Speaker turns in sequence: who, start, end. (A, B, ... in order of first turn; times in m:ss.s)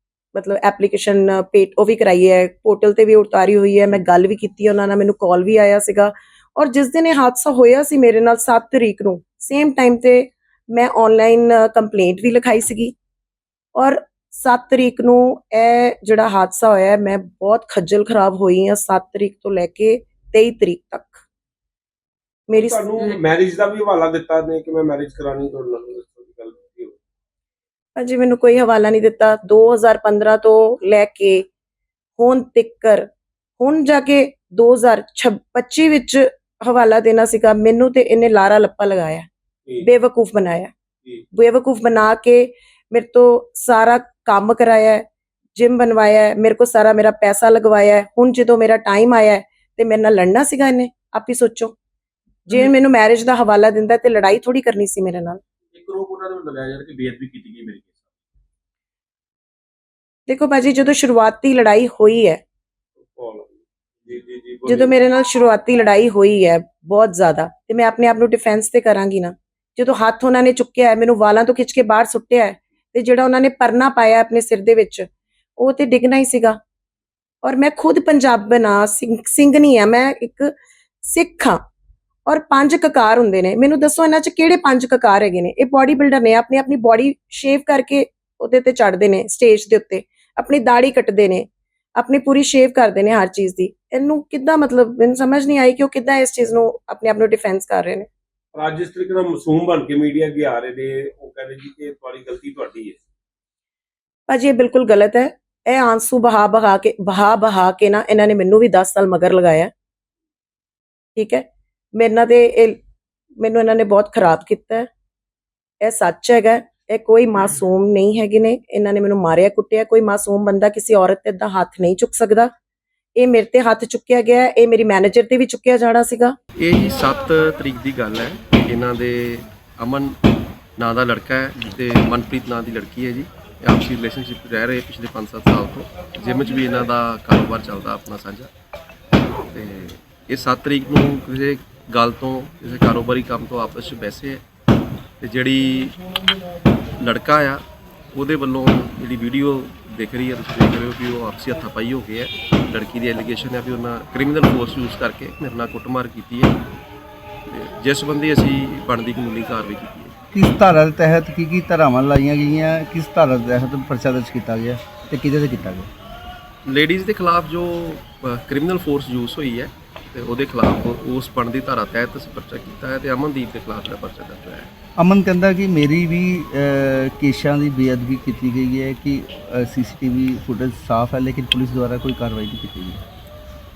0:00.4-0:12.9 A
0:13.8-0:21.2 A
0:22.5-0:23.0 A
0:22.5-0:26.9 B
0:28.0-0:31.4 A
0:32.2-0:39.3 A
0:39.8-0:40.7 A
0:41.3-0:45.0 A
0:45.6-0:51.7 A
0:52.5-0:55.4 A
0:55.7-0:58.1 C
1:00.3-1:02.4 A
1:03.1-1:04.9 B
1:04.7-1:15.1 A
1:15.6-1:16.6 A
1:17.4-1:20.5 A
1:21.0-1:21.6 A
1:22.3-1:31.5 A
1:32.0-1:38.1 A
1:38.5-1:43.0 B
1:44.3-1:49.7 A
1:51.2-1:51.4 A
1:52.0-1:52.8 A
1:53.4-1:54.9 A
1:55.8-2:02.5 A
2:03.2-2:06.4 A
2:06.6-2:10.2 D
2:10.8-2:18.5 D
2:19.5-2:24.4 D
2:25.2-2:26.0 D
2:27.0-2:36.6 D
2:37.5-2:40.1 D
2:40.3-2:45.9 E
2:46.7-2:54.7 D
2:55.0-3:03.0 E